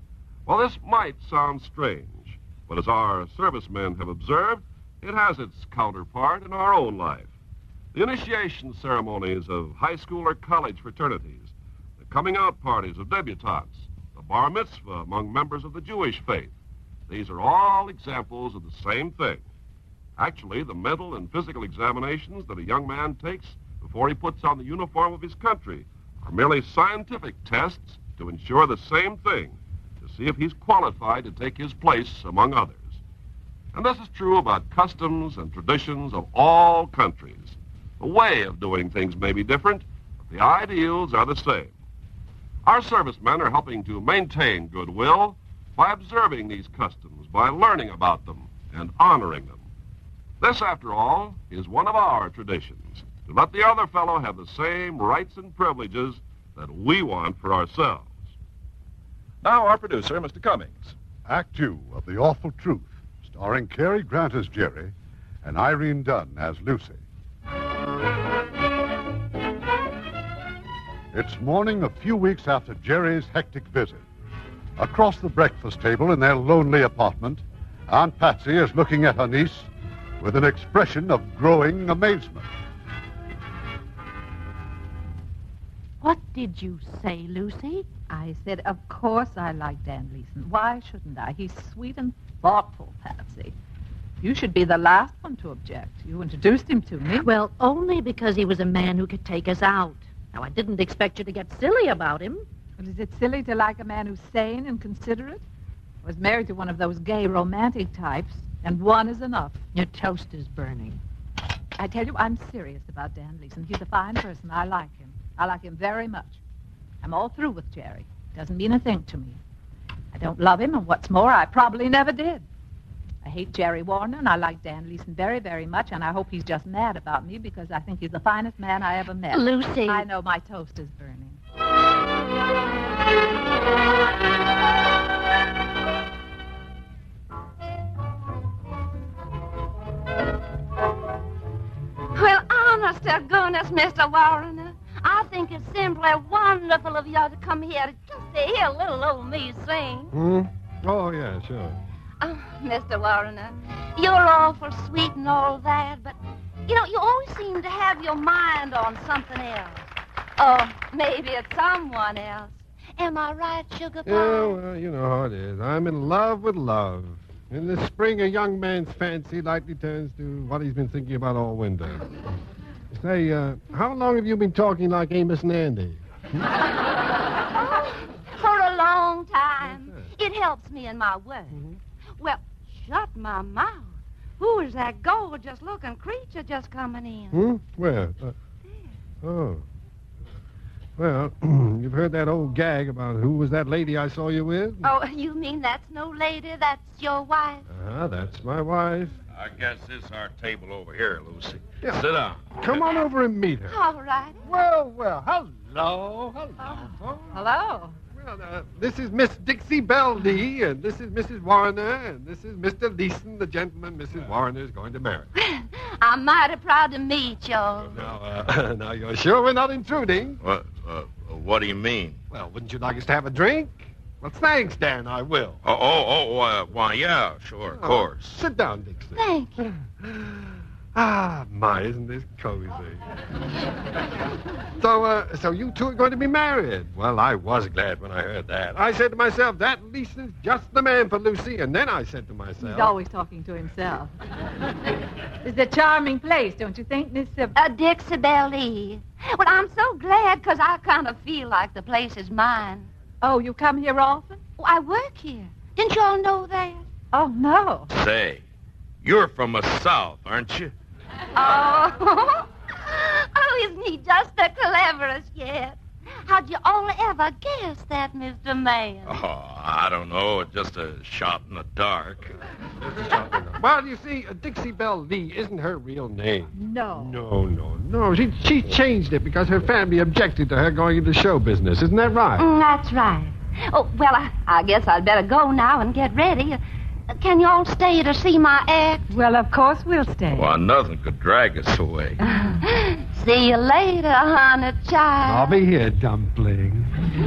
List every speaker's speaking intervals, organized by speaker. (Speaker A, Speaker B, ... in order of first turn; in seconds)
Speaker A: 0.5-7.3, 7.9-16.5, 17.1-19.4, 20.2-33.0, 33.7-41.7, 42.6-49.6, 50.4-58.2, 59.4-60.9
Speaker B: 61.3-67.0, 71.1-74.0, 74.8-79.7, 80.2-82.5
Speaker C: 86.0-87.9, 97.2-102.4, 109.8-111.0
Speaker D: 88.1-93.5, 94.2-97.3, 102.8-105.4, 106.0-109.6, 111.8-116.4, 117.0-119.4, 120.1-122.5, 123.2-131.4, 207.3-207.9, 242.6-244.1, 245.4-247.6, 253.2-254.4, 257.1-257.9, 276.6-277.2, 289.1-290.5
Speaker E: 142.1-150.1, 152.2-156.2, 156.7-159.9, 160.4-164.6, 177.6-181.6, 182.2-187.4, 194.8-197.7, 203.7-204.4, 215.4-218.0, 229.2-229.6, 247.6-252.9, 254.6-256.8, 261.4-269.2, 282.4-286.6, 287.1-289.1, 292.3-295.5
Speaker F: 150.1-151.8, 164.1-172.2, 172.9-176.5, 179.6-180.1, 187.3-188.4, 189.2-189.6, 191.0-194.9, 197.7-199.2, 202.6-203.8, 204.4-207.4, 208.2-215.3, 217.9-220.4, 222.3-225.6, 227.7-233.0, 234.8-242.9, 272.9-282.5, 295.2-296.9
Speaker G: 199.3-202.6, 220.4-222.2, 225.6-228.4, 257.9-258.4, 259.0-260.7, 269.1-272.3, 290.3-292.2